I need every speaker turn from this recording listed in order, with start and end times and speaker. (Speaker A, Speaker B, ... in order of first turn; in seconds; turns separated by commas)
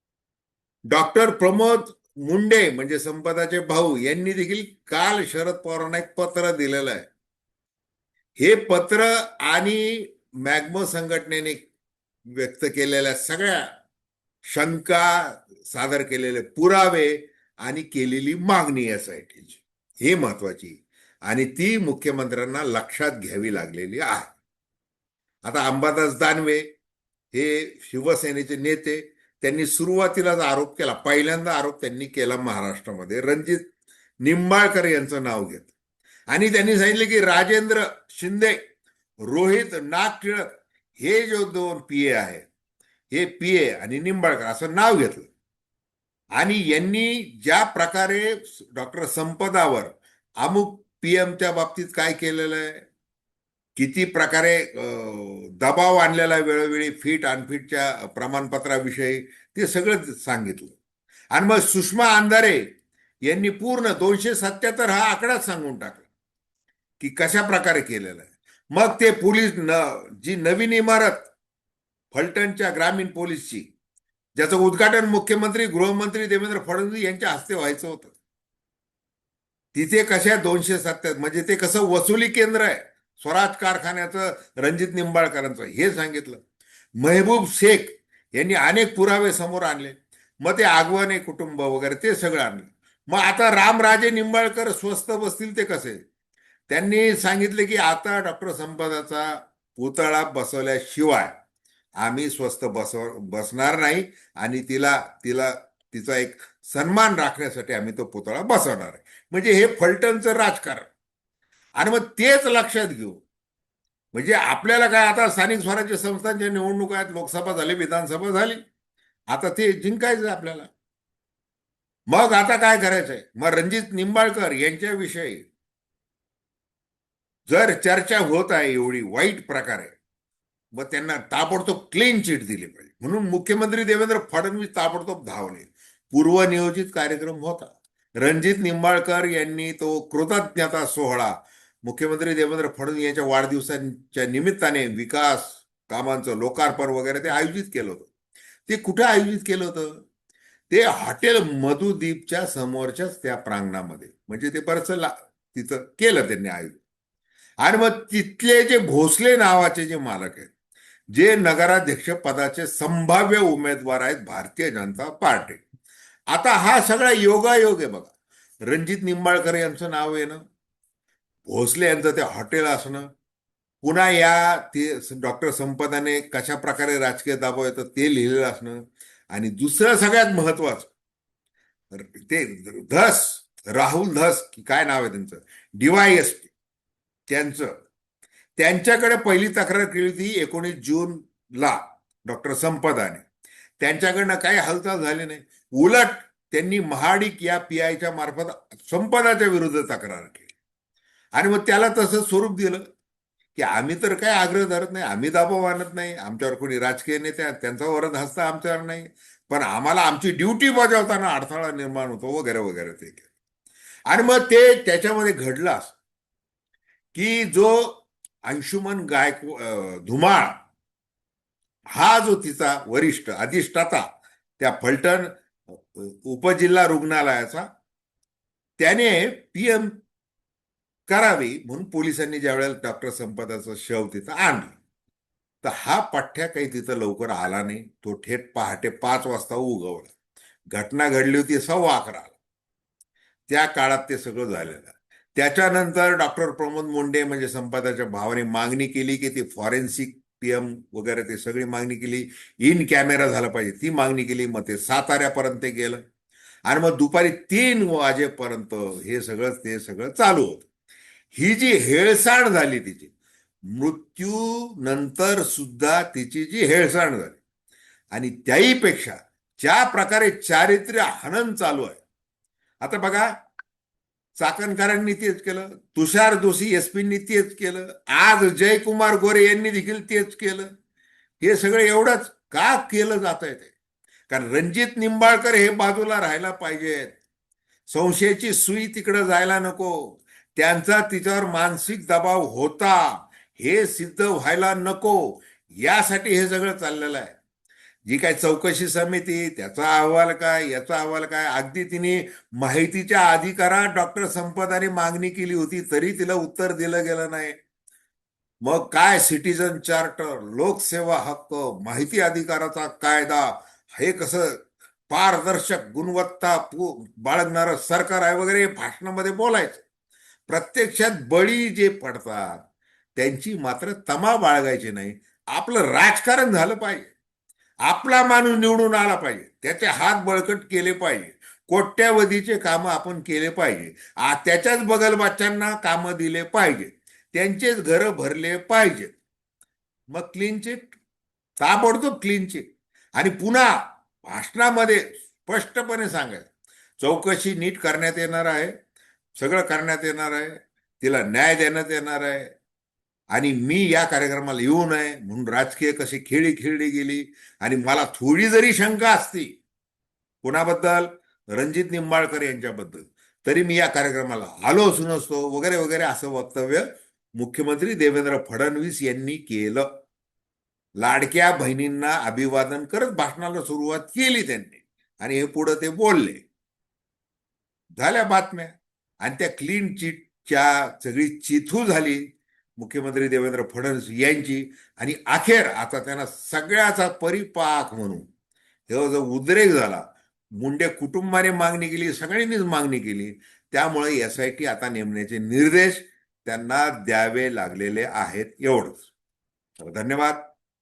Speaker A: 0.9-7.1, Speaker A: 8.4-11.6, Speaker A: 12.4-13.7, Speaker A: 14.5-24.3, Speaker A: 25.4-26.6, Speaker A: 27.3-33.6, Speaker A: 34.2-35.7, Speaker A: 36.3-38.6, Speaker A: 39.2-42.5, Speaker A: 43.1-45.3, Speaker A: 46.4-52.9, Speaker A: 53.8-60.8, Speaker A: 61.3-62.6, Speaker A: 63.3-66.1, Speaker A: 67.0-71.3, Speaker A: 72.1-73.7, Speaker A: 74.3-78.1, Speaker A: 79.7-86.4, Speaker A: 87.0-96.0, Speaker A: 96.7-101.3, Speaker A: 102.0-110.9, Speaker A: 111.8-113.2, Speaker A: 114.1-118.6, Speaker A: 119.3-120.7, Speaker A: 122.1-125.4, Speaker A: 127.5-129.9, Speaker A: 130.7-141.3, Speaker A: 141.8-148.1, Speaker A: 148.7-149.9, Speaker A: 150.7-156.8, Speaker A: 157.6-160.5, Speaker A: 161.1-165.6, Speaker A: 166.3-168.1, Speaker A: 168.6-170.4, Speaker A: 171.4-173.1, Speaker A: 173.8-178.8, Speaker A: 179.3-180.9, Speaker A: 181.9-186.5, Speaker A: 187.3-187.7, Speaker A: 188.6-193.2, Speaker A: 193.8-200.5, Speaker A: 201.3-202.8, Speaker A: 203.5-213.2, Speaker A: 214.1-215.9, Speaker A: 217.1-220.6, Speaker A: 221.9-224.0, Speaker A: 224.6-227.6, Speaker A: 228.8-229.9, Speaker A: 231.1-234.8, Speaker A: 235.6-240.1, Speaker A: 240.7-242.3, Speaker A: 243.5-256.0, Speaker A: 256.7-260.7, Speaker A: 261.3-263.1, Speaker A: 263.7-267.4, Speaker A: 268.1-272.0, Speaker A: 272.8-273.3, Speaker A: 274.4-280.7, Speaker A: 281.4-283.7, Speaker A: 284.3-287.1, Speaker A: 287.9-297.4, Speaker A: 298.1-307.6, Speaker A: 308.6-319.8, Speaker A: 320.5-322.6, Speaker A: 323.1-327.1, Speaker A: 327.9-339.1, Speaker A: 340.1-340.9, Speaker A: 341.6-342.6, Speaker A: 343.1-348.7, Speaker A: 349.4-352.5, Speaker A: 353.3-359.5, Speaker A: 360.4-366.9, Speaker A: 367.4-369.9, Speaker A: 371.0-376.4, Speaker A: 378.0-382.2, Speaker A: 382.8-388.3, Speaker A: 388.9-390.0, Speaker A: 390.6-399.1, Speaker A: 399.8-400.4